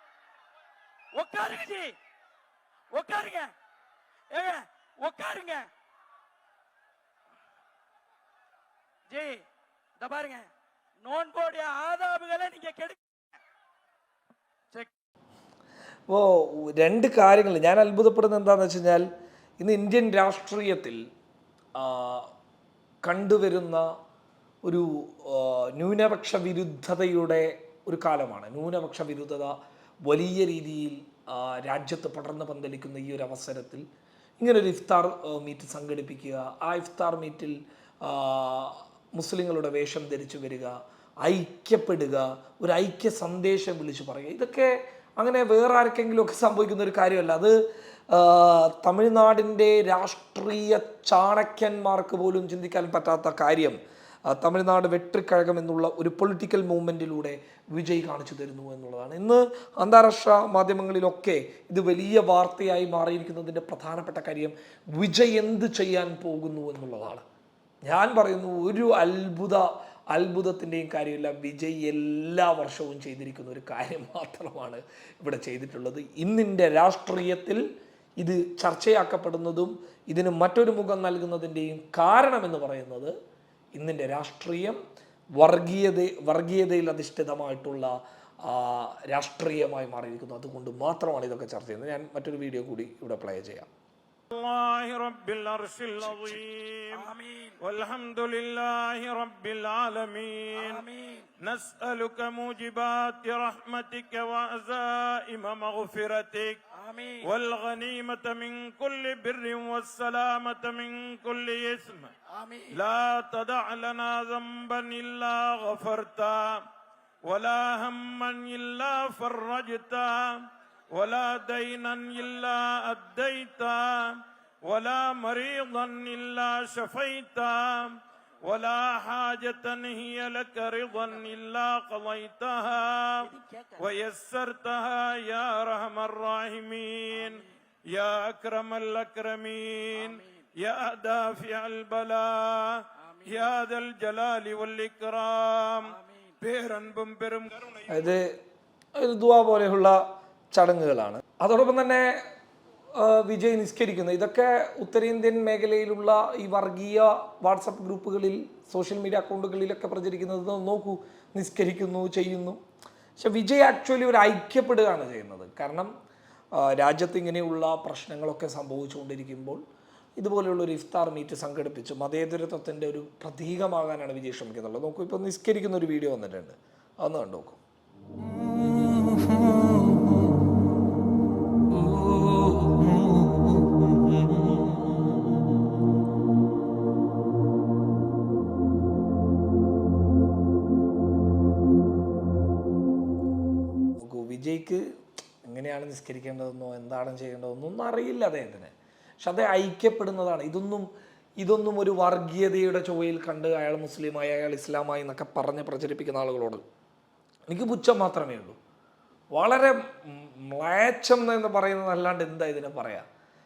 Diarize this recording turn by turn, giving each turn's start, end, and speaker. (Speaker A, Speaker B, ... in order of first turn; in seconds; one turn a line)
Speaker A: 1.1-1.9
Speaker A: 2.9-3.5
Speaker A: 4.3-5.7
Speaker A: 9.1-9.4
Speaker A: 10.0-10.5
Speaker A: 11.0-13.0
Speaker B: 16.1-19.1
Speaker B: 19.6-21.0
Speaker B: 21.8-22.3
Speaker B: 23.0-23.9
Speaker B: 24.6-29.5
Speaker B: 30.1-33.8
Speaker B: 34.4-47.6
Speaker B: 48.1-53.8
Speaker B: 54.3-67.2
Speaker B: 67.9-77.6
Speaker B: 78.2-83.1
Speaker B: 83.8-84.8
Speaker B: 85.4-87.9
Speaker B: 88.4-93.7
Speaker C: 94.3-97.1
Speaker A: 96.9-97.6
Speaker C: 97.6-100.8
Speaker A: 100.6-101.3
Speaker C: 101.4-106.6
Speaker A: 106.8-107.2
Speaker C: 107.2-112.1
Speaker A: 112.3-112.8
Speaker C: 112.7-116.6
Speaker C: 117.2-148.2
Speaker A: 133.3-133.8
Speaker A: 139.9-140.3
Speaker A: 143.0-143.3
Speaker A: 145.9-146.3
Speaker B: 147.9-148.3
Speaker B: 149.0-150.0
Speaker B: 150.5-152.2
Speaker B: 152.9-162.6
Speaker B: 163.2-165.9
Speaker B: 166.6-169.6
Speaker B: 170.2-177.6
Speaker B: 194.0-194.8
Speaker B: 195.4-200.9
Speaker B: 201.4-206.6
Speaker B: 207.5-208.6
Speaker B: 209.3-213.1